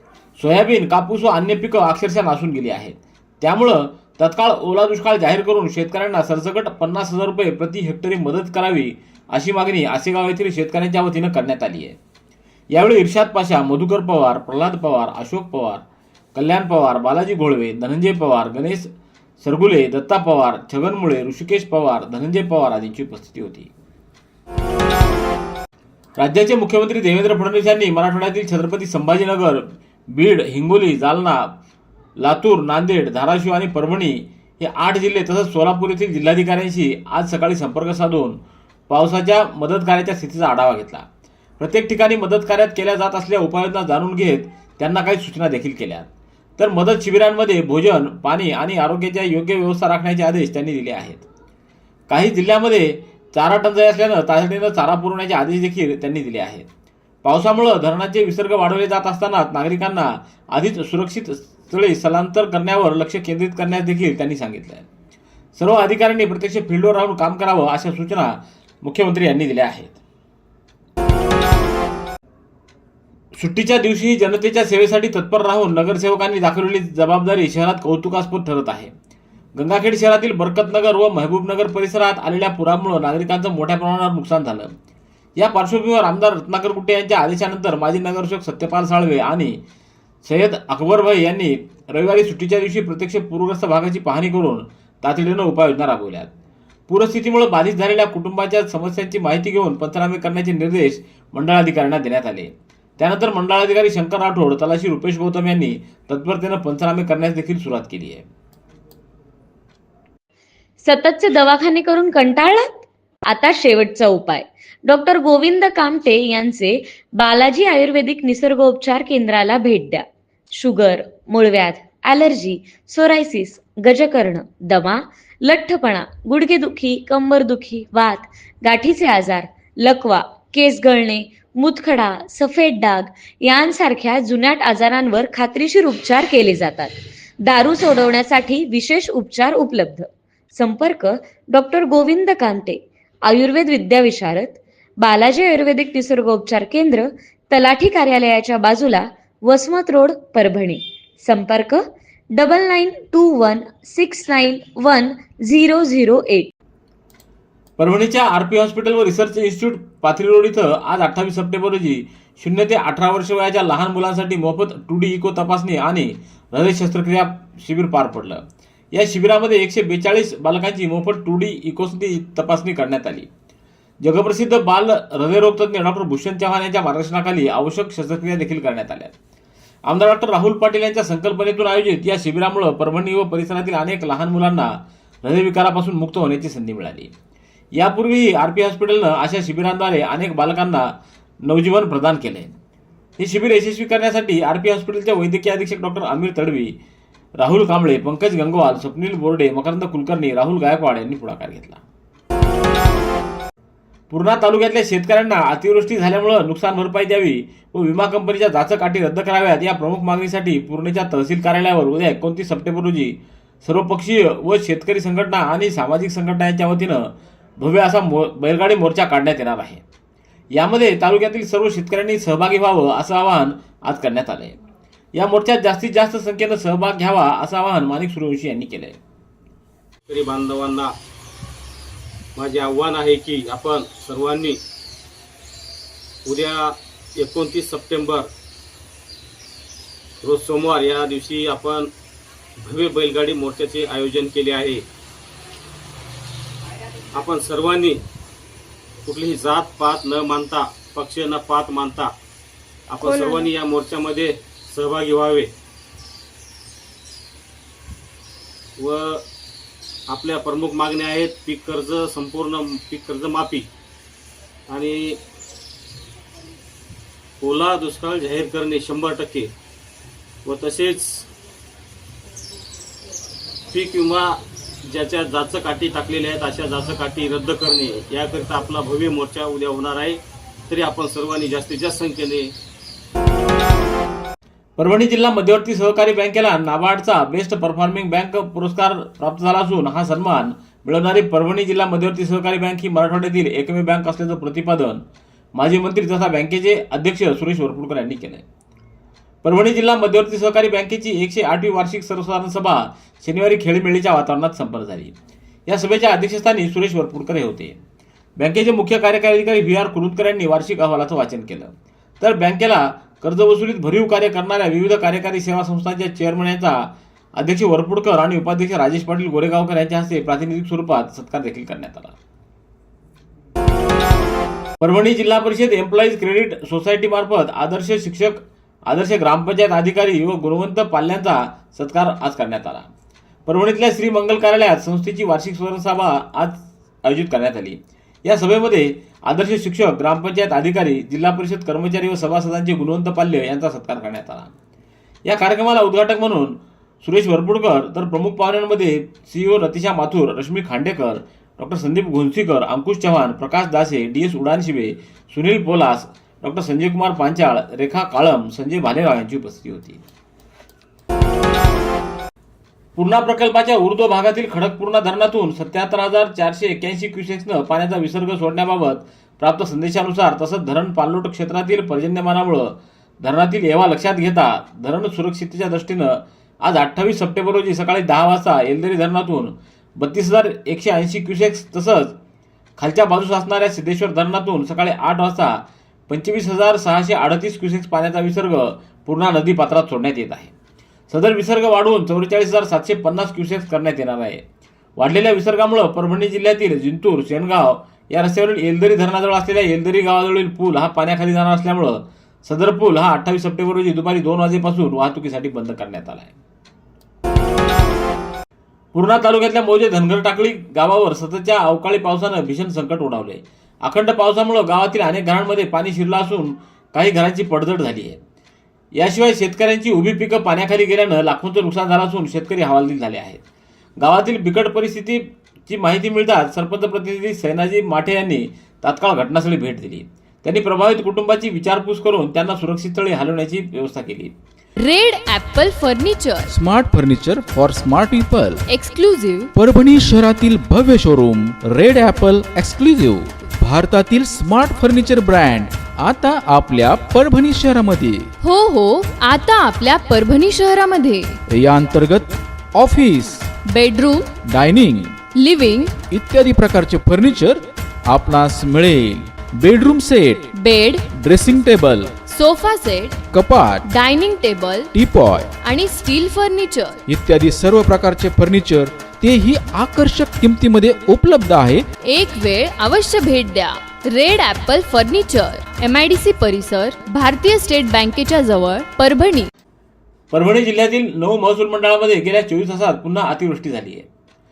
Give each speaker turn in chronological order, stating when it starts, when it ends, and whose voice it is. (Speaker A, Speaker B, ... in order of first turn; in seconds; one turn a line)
Speaker A: 0.4-11.9
Speaker A: 12.7-15.8
Speaker A: 16.3-18.9
Speaker A: 19.4-23.7
Speaker A: 26.2-31.4
Speaker A: 32.2-41.0
Speaker A: 41.6-51.2
Speaker A: 52.1-56.6
Speaker A: 57.2-64.9
Speaker A: 65.6-70.0
Speaker A: 73.3-78.9
Speaker A: 79.5-84.7
Speaker A: 85.4-89.6
Speaker A: 90.2-96.3
Speaker A: 96.9-108.2
Speaker B: 110.8-112.7
Speaker B: 113.3-120.0
Speaker B: 120.5-151.8
Speaker B: 152.3-156.5
Speaker A: 157.8-168.4
Speaker A: 168.9-173.3
Speaker A: 174.0-179.1
Speaker A: 179.8-187.1
Speaker A: 187.7-190.9
Speaker A: 191.4-192.6
Speaker A: 193.2-196.7
Speaker A: 197.4-201.8
Speaker A: 204.1-219.8
Speaker A: 220.5-224.6
Speaker A: 225.1-229.0
Speaker C: 230.1-230.9
Speaker C: 232.3-234.6
Speaker C: 236.2-238.3
Speaker C: 240.2-241.9
Speaker C: 242.6-244.8
Speaker C: 247.1-248.0
Speaker C: 249.0-252.1
Speaker C: 252.9-255.5
Speaker C: 258.8-259.2
Speaker C: 260.1-263.7
Speaker C: 264.7-265.2
Speaker C: 267.4-269.5
Speaker C: 270.4-271.3
Speaker C: 273.7-282.5
Speaker A: 284.8-295.0
Speaker A: 295.5-298.4
Speaker A: 299.4-305.1
Speaker A: 305.7-307.8
Speaker A: 308.4-322.1
Speaker A: 324.8-332.9
Speaker A: 333.4-344.5
Speaker A: 345.3-360.0
Speaker A: 362.9-382.1
Speaker A: 382.8-390.5
Speaker A: 391.1-394.4
Speaker A: 395.0-406.3
Speaker A: 408.9-418.2
Speaker A: 418.9-423.4
Speaker A: 424.0-434.3
Speaker D: 434.8-436.5
Speaker E: 436.5-438.6
Speaker D: 438.7-439.5
Speaker E: 439.5-448.3
Speaker D: 448.4-451.4
Speaker E: 451.5-453.5
Speaker D: 453.7-454.3
Speaker E: 454.4-455.1
Speaker D: 455.3-455.9
Speaker E: 456.1-460.5
Speaker D: 460.5-461.1
Speaker E: 461.1-462.1
Speaker D: 462.2-463.2
Speaker E: 463.3-463.8
Speaker D: 463.8-465.0
Speaker E: 464.9-465.5
Speaker D: 465.6-467.0
Speaker E: 467.1-471.9
Speaker D: 472.1-479.5
Speaker A: 480.3-484.1